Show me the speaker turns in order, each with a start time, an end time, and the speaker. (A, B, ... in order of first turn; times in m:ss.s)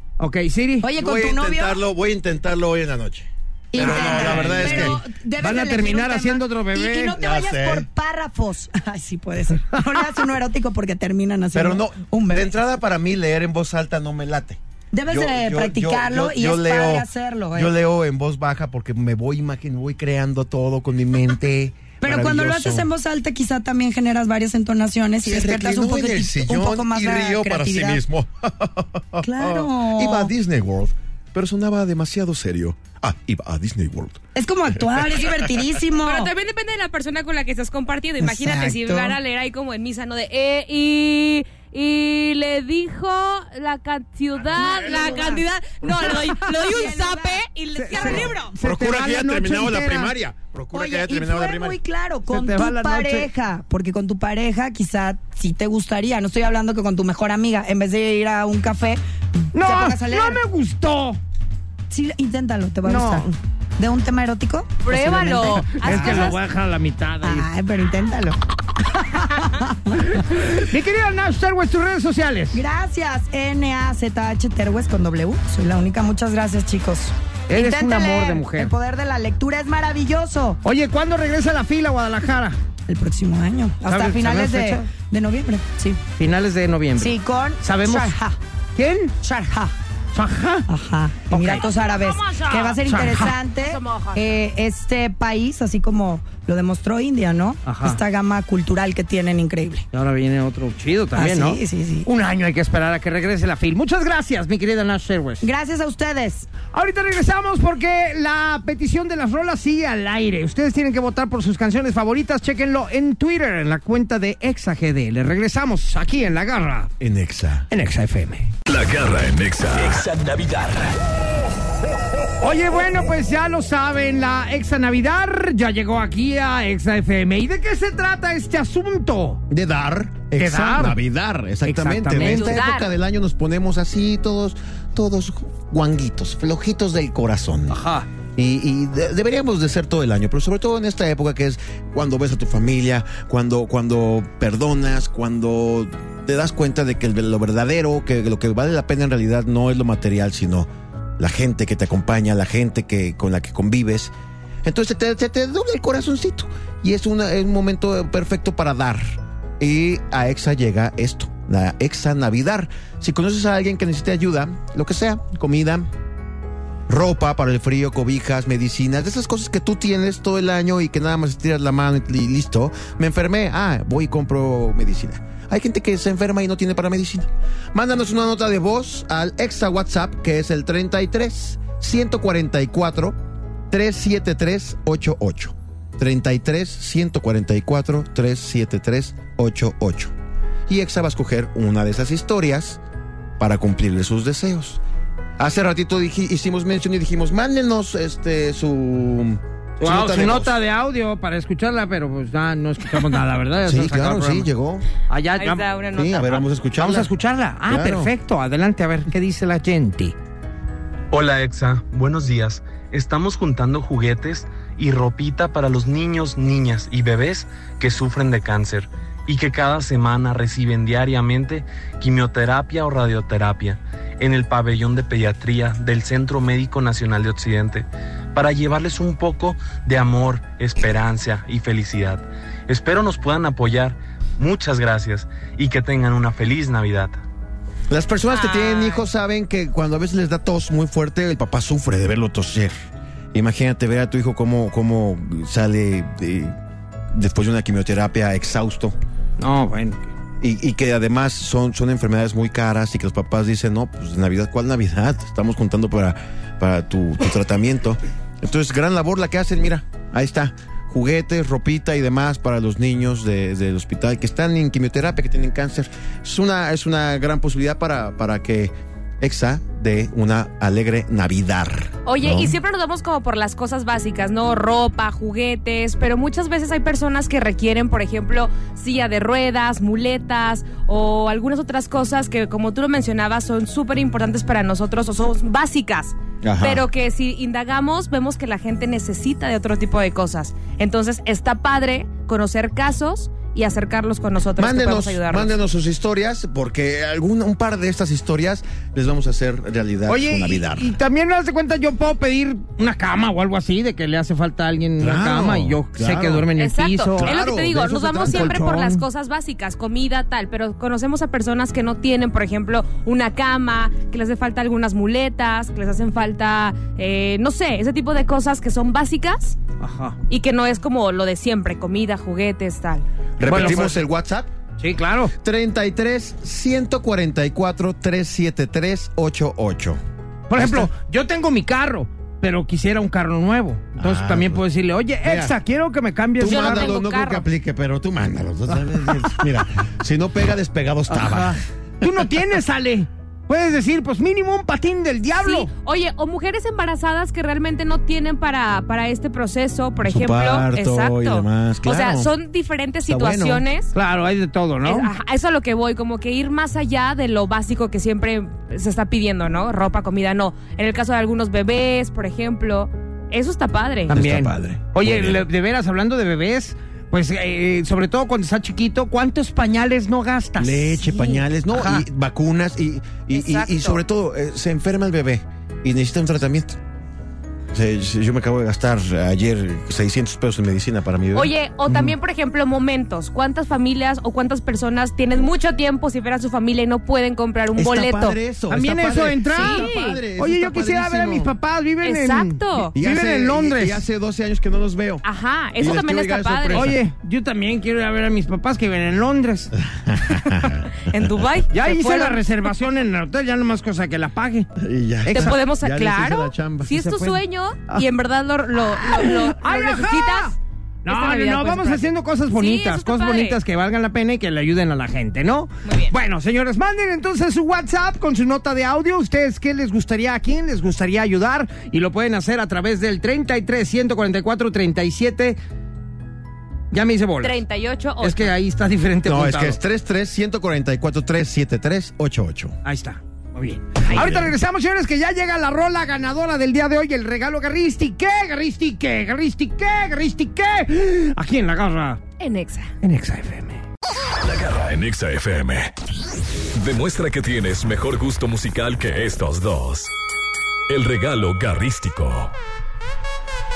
0:00.2-0:00.9 A
0:00.8-0:01.8 B
0:01.0-0:05.0 C
0:03.7-0:12.5 B
0:03.7-0:07.2 A
0:07.2-0:07.9 C
0:11.5-0:22.9 C
0:14.9-0:17.7 B
0:22.0-0:28.0 B
0:25.2-0:34.2 C
0:29.2-0:30.3 B
0:34.3-0:36.3 B
0:34.8-0:35.3 C
0:36.0-0:48.5 D
0:38.2-0:39.2 B
0:44.6-0:45.4 B
0:46.0-0:48.4 B
0:47.8-0:50.1 A
0:48.6-0:51.8 C
0:50.7-1:00.4 B
0:52.3-0:53.3 A
0:59.5-1:01.2 A
1:01.9-1:06.3 B
1:02.8-1:03.3 A
1:04.8-1:06.4 D
1:05.4-1:07.5 A
1:07.2-1:08.4 B
1:08.9-1:10.2 B
1:10.0-1:12.6 A
1:12.5-1:20.6 B
1:17.5-1:18.7 A
1:20.6-1:22.6 A
1:22.9-1:26.0 B
1:23.8-1:24.9 A
1:26.1-1:28.2 A
1:27.0-1:28.4 B
1:28.8-1:29.1 A
1:29.2-1:29.7 B
1:30.1-1:30.6 A
1:30.7-1:39.8 B
1:31.3-1:31.7 A
1:31.7-1:32.8 D
1:32.7-1:33.4 A
1:33.6-1:34.3 D
1:37.6-1:38.0 A
1:39.9-1:45.4 A
1:41.1-1:42.1 B
1:45.4-1:46.5 B
1:46.7-1:56.9 A
1:57.0-1:57.7 C
1:57.7-1:58.5 A
1:58.6-2:00.9 E
2:02.4-2:09.4 A
2:09.5-2:17.8 C
2:10.4-2:11.0 A
2:11.6-2:12.6 A
2:12.2-2:12.9 D
2:17.7-2:18.1 A
2:18.3-2:30.7 C
2:31.2-2:34.1 C
2:34.6-2:45.9 C
2:46.9-3:03.2 C
3:03.7-3:10.1 C
3:10.7-3:12.8 C
3:13.4-3:14.8 C
3:15.4-3:20.5 C
3:19.8-3:24.5 A
3:23.6-3:24.8 C
3:25.1-3:25.7 A
3:25.4-3:26.4 D
3:25.9-3:27.1 C
3:26.8-3:30.1 A
3:27.7-3:28.1 C
3:31.1-3:57.2 F
3:57.9-4:02.7 C
3:58.3-3:59.0 D
4:03.3-4:06.5 C
4:07.1-4:09.0 C
4:09.4-4:10.1 A
4:10.4-4:32.6 C
4:32.0-4:55.5 D
4:46.4-4:46.8 C
4:54.6-5:00.9 C
5:00.1-5:09.0 A
5:05.0-5:06.5 C
5:06.6-5:19.6 D
5:07.1-5:08.6 C
5:19.8-5:20.2 A
5:20.3-5:23.0 D
5:23.4-5:24.5 C
5:23.4-5:24.0 A
5:24.8-5:25.3 A
5:25.4-5:30.0 C
5:30.5-5:37.0 A
5:30.6-5:30.9 C
5:34.0-5:34.6 C
5:35.2-5:35.5 C
5:36.4-5:42.3 C
5:36.4-5:37.4 D
5:38.7-5:39.4 A
5:41.1-5:45.7 A
5:45.4-5:53.9 D
5:50.0-5:52.3 C
5:53.0-5:53.6 C
5:53.9-5:55.1 A
5:54.8-6:04.1 D
6:04.1-6:12.0 A
6:04.1-6:05.4 C
6:10.6-6:16.8 C
6:13.3-6:14.0 D
6:17.7-6:21.5 C
6:21.3-6:28.4 D
6:21.9-6:22.1 A
6:27.7-6:31.5 C
6:28.7-6:34.0 A
6:29.5-6:30.2 D
6:32.0-6:32.9 D
6:32.9-6:35.2 C
6:35.2-6:36.9 D
6:35.8-6:37.0 C
6:36.7-6:39.7 A
6:39.8-6:40.9 C
6:41.0-6:42.4 D
6:41.7-6:44.7 A
6:44.8-6:47.0 C
6:45.2-6:45.6 A
6:45.3-6:50.6 D
6:46.9-6:47.4 A
6:49.0-7:05.6 A
6:51.1-6:53.6 D
6:55.8-6:56.1 D
7:06.9-7:07.6 A
7:07.4-7:08.5 D
7:08.2-7:09.8 A
7:09.2-7:12.8 C
7:12.8-7:22.2 A
7:14.1-7:14.5 C
7:22.4-7:22.9 D
7:23.0-7:23.8 A
7:24.4-7:25.9 E
7:26.7-7:30.1 E
7:30.9-7:32.5 E